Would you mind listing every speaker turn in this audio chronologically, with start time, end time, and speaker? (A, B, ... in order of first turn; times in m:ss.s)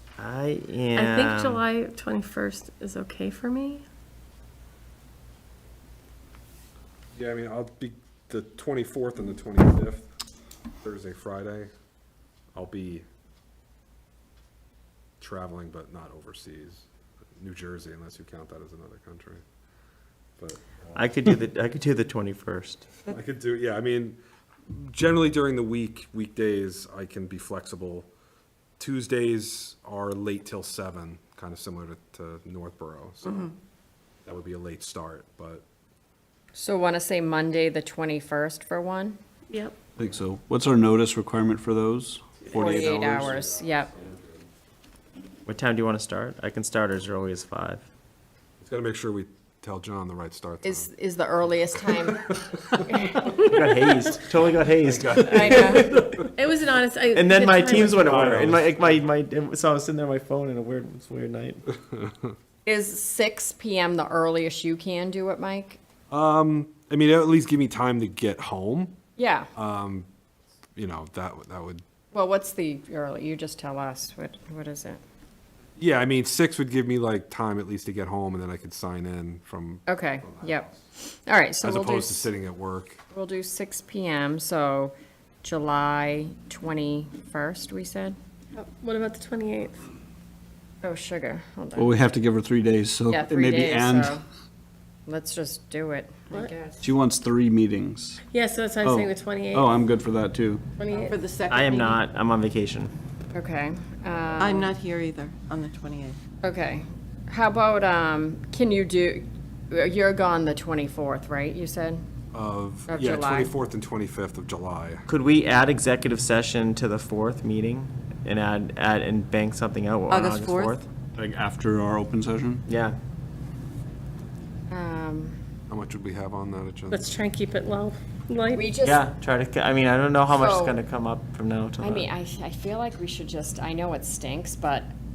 0:00.2-0:01.6 A
0:00.9-0:03.8 B
0:07.1-0:10.1 C
0:10.8-0:11.7 C
0:12.5-0:13.0 C
0:15.2-0:16.8 C
0:17.4-0:19.4 C
0:20.4-0:21.0 C
0:20.9-0:22.9 A
0:23.1-0:28.1 C
0:28.8-0:33.5 C
0:34.2-0:35.6 C
0:36.5-0:39.2 D
0:39.5-0:39.7 B
0:40.0-0:43.5 E
0:42.5-0:43.9 D
0:42.8-0:44.4 C
0:45.4-0:47.8 A
0:48.6-0:50.9 C
0:50.6-0:53.2 D
0:52.3-0:52.8 C
0:53.4-0:56.3 A
0:54.8-0:55.8 C
0:55.2-0:55.9 D
0:56.3-0:58.2 B
0:57.1-1:01.6 A
0:58.0-0:58.6 C
1:02.6-1:05.8 D
1:06.1-1:09.0 C
1:09.2-1:09.5 D
1:09.5-1:10.1 C
1:10.8-1:11.8 C
1:12.1-1:15.0 D
1:15.8-1:20.8 C
1:19.9-1:22.3 D
1:21.6-1:23.0 C
1:23.1-1:28.2 D
1:28.5-1:29.8 B
1:30.8-1:32.0 D
1:31.8-1:34.2 E
1:33.1-1:34.2 D
1:35.0-1:36.9 D
1:36.8-1:38.2 E
1:38.2-1:39.7 B
1:38.8-1:40.6 E
1:40.8-1:41.2 B
1:40.9-1:42.0 F
1:41.5-1:42.9 A
1:43.3-1:44.7 D
1:44.4-1:46.2 F
1:46.4-1:52.0 D
1:52.3-1:55.0 C
1:52.9-1:53.5 D
1:55.1-2:00.9 A
2:00.1-2:00.8 F
2:01.2-2:02.6 E
2:02.7-2:03.0 A
2:04.7-2:05.4 D
2:05.7-2:07.1 C
2:06.9-2:08.7 B
2:08.5-2:09.1 D
2:08.8-2:12.1 A
2:10.3-2:10.8 D
2:11.8-2:14.9 D